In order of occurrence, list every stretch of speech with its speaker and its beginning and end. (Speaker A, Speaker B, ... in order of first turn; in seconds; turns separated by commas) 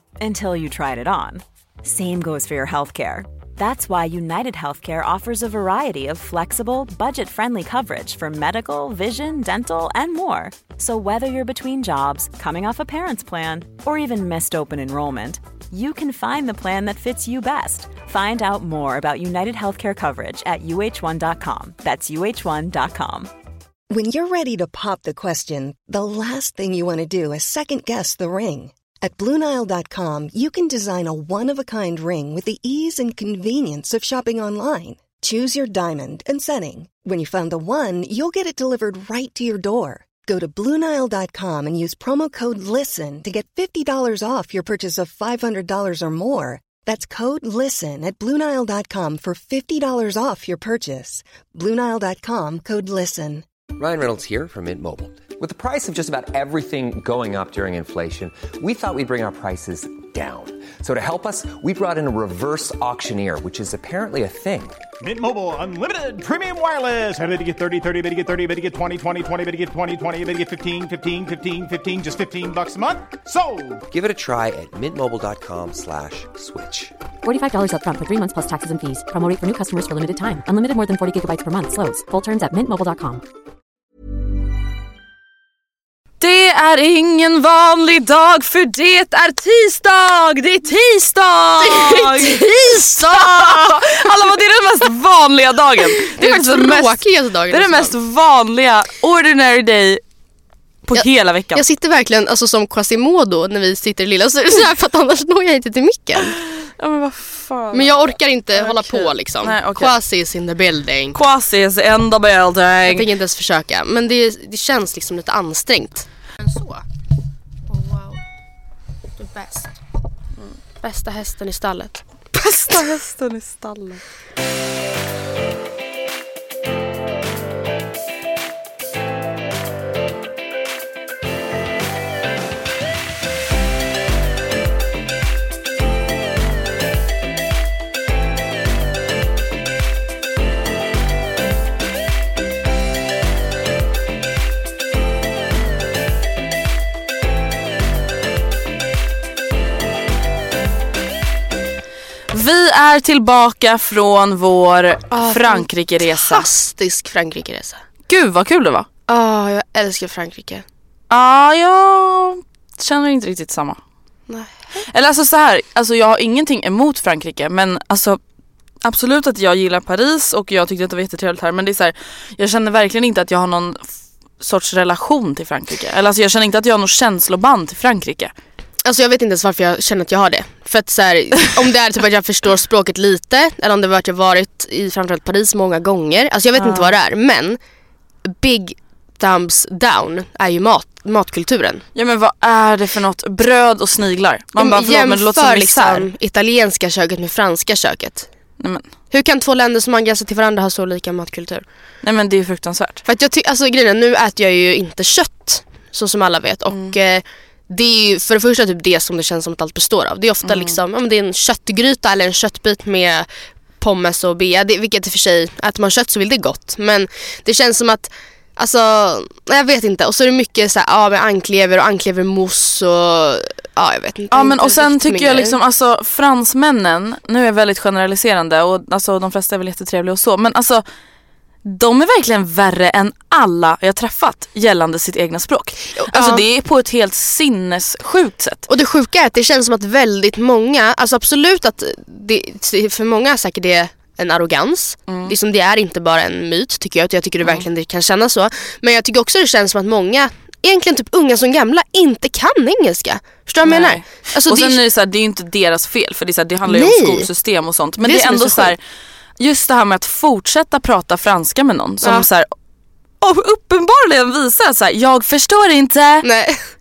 Speaker A: 0.2-23.3, Speaker B: 23.9-53.5, Speaker C: 53.8-64.8, Speaker D: 65.0-73.8, Speaker C: 73.9-76.9, Speaker E: 77.2-83.2, Speaker F: 86.2-100.0, Speaker G: 91.6-93.7, Speaker G: 96.1-97.9, Speaker F: 100.8-101.6, Speaker G: 101.0-106.4, Speaker F: 106.6-108.0, Speaker G: 107.7-111.2, Speaker F: 108.5-109.9, Speaker F: 111.1-113.1, Speaker G: 112.9-116.8, Speaker G: 117.7-118.2, Speaker G: 119.2-119.8, Speaker G: 120.8-122.0, Speaker F: 122.3-124.0, Speaker F: 152.3-156.5, Speaker G: 155.1-157.8, Speaker F: 158.1-158.9, Speaker G: 159.1-160.7, Speaker F: 161.1-163.8, Speaker G: 164.3-164.8, Speaker F: 164.9-168.2, Speaker F: 168.8-173.9, Speaker F: 174.4-178.3, Speaker G: 178.8-187.6, Speaker F: 186.6-186.9, Speaker G: 188.3-191.8, Speaker F: 191.9-196.1, Speaker G: 194.6-198.3, Speaker G: 199.1-201.6, Speaker F: 202.0-203.0, Speaker G: 203.1-213.3, Speaker F: 210.4-210.8, Speaker G: 213.8-225.6, Speaker F: 224.3-230.8, Speaker F: 231.7-238.7, Speaker G: 236.0-236.4, Speaker G: 238.7-254.8, Speaker F: 245.1-245.3, Speaker F: 253.6-258.8, Speaker G: 256.7-257.3, Speaker G: 258.0-258.7, Speaker F: 259.4-262.5, Speaker F: 263.2-266.3, Speaker G: 266.2-266.6